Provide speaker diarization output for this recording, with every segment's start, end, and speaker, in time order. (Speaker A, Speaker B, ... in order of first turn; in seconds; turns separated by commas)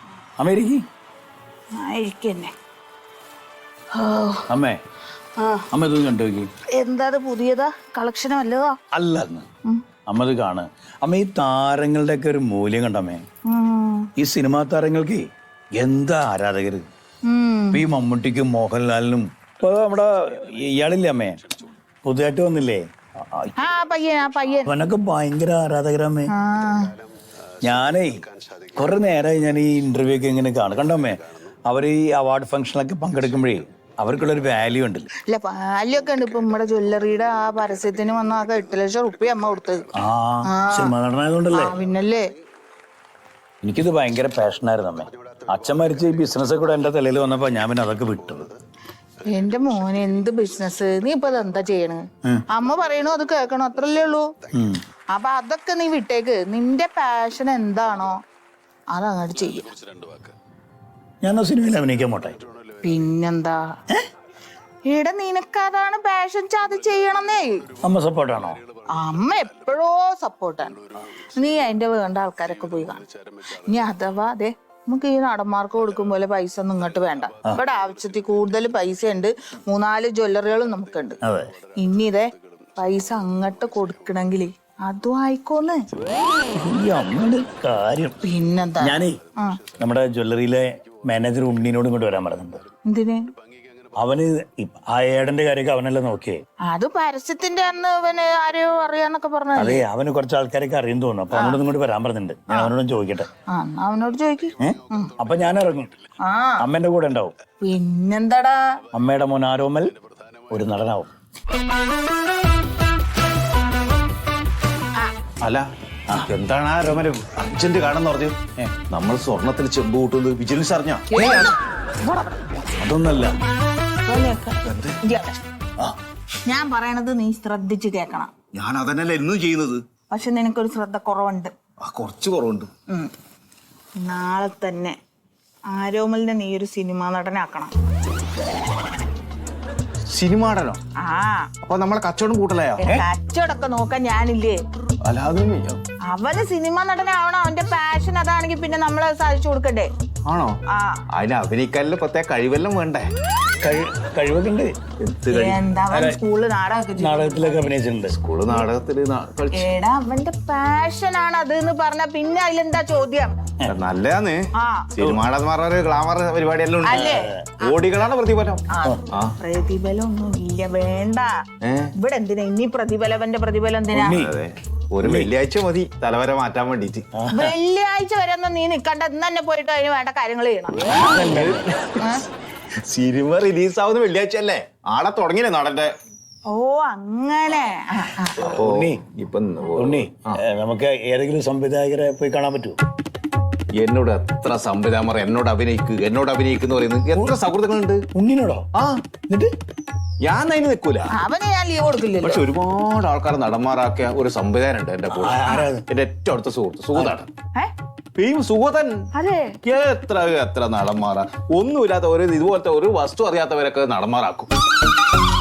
Speaker A: 0.4-0.8, Speaker B: 1.8-2.5, Speaker B: 3.9-4.5, Speaker A: 4.5-4.8, Speaker B: 5.4-5.7, Speaker A: 5.7-6.5, Speaker B: 6.7-8.8, Speaker A: 8.9-9.5, Speaker A: 10.1-13.2, Speaker B: 13.5-14.1, Speaker A: 14.2-15.3, Speaker A: 15.8-16.9, Speaker B: 17.3-17.9, Speaker A: 17.7-21.4, Speaker A: 22.0-23.5, Speaker B: 23.6-24.8, Speaker A: 24.7-26.3, Speaker B: 26.3-26.9, Speaker A: 27.6-35.1, Speaker B: 35.3-39.9, Speaker A: 40.0-41.8, Speaker B: 40.5-40.9, Speaker B: 41.5-42.2, Speaker A: 43.6-48.5, Speaker B: 49.2-54.3, Speaker A: 54.5-54.8, Speaker B: 55.1-58.2, Speaker B: 58.9-59.8, Speaker A: 61.2-62.4, Speaker B: 62.8-63.6, Speaker B: 64.9-67.7, Speaker A: 67.8-68.6, Speaker B: 68.9-81.2, Speaker A: 81.2-81.5, Speaker B: 81.8-85.8, Speaker A: 86.5-88.2, Speaker B: 88.2-89.6, Speaker A: 88.8-89.2, Speaker A: 89.8-92.6, Speaker B: 92.8-93.3, Speaker A: 94.0-96.4, Speaker B: 96.7-99.8, Speaker A: 99.6-103.3, Speaker B: 101.3-101.6, Speaker B: 103.5-105.1, Speaker A: 104.6-105.9, Speaker B: 106.2-106.7, Speaker A: 106.6-107.3, Speaker B: 107.6-108.8, Speaker A: 108.9-109.9, Speaker A: 110.5-111.1, Speaker C: 115.4-121.6, Speaker B: 121.1-122.5, Speaker A: 122.8-123.4, Speaker B: 124.1-125.4, Speaker C: 124.6-125.0, Speaker B: 126.5-128.3, Speaker C: 128.5-129.8, Speaker B: 130.1-131.5, Speaker C: 131.8-132.7, Speaker B: 134.0-135.0, Speaker B: 135.7-137.7, Speaker C: 140.1-140.8, Speaker B: 141.0-141.5, Speaker C: 141.6-143.0, Speaker B: 142.8-144.6, Speaker C: 145.0-145.8, Speaker B: 146.1-149.9, Speaker C: 150.3-150.6, Speaker B: 150.7-151.0, Speaker C: 151.1-153.1, Speaker A: 153.6-154.8, Speaker C: 155.0-155.6, Speaker B: 155.3-157.8, Speaker A: 155.9-156.2, Speaker A: 157.0-158.2, Speaker C: 158.1-159.7, Speaker B: 159.5-163.4, Speaker C: 163.7-169.4, Speaker B: 164.6-164.9, Speaker B: 166.8-167.8, Speaker A: 166.9-167.5, Speaker B: 168.7-171.3, Speaker C: 171.6-171.9, Speaker B: 172.0-174.2, Speaker A: 173.9-174.3, Speaker C: 174.1-177.1, Speaker A: 175.0-175.3, Speaker A: 177.2-177.5, Speaker B: 177.3-181.0, Speaker A: 180.9-181.8, Speaker C: 181.0-182.2, Speaker B: 182.0-182.2, Speaker C: 182.8-185.9, Speaker B: 186.5-188.6, Speaker C: 188.4-190.4, Speaker A: 188.4-189.0, Speaker A: 189.8-192.8, Speaker C: 193.7-198.1, Speaker A: 198.2-198.7, Speaker C: 198.7-199.0, Speaker C: 200.2-201.1, Speaker B: 201.1-202.5, Speaker C: 202.2-207.3, Speaker A: 205.1-205.8, Speaker C: 208.2-209.1, Speaker B: 209.1-209.6, Speaker C: 209.6-214.5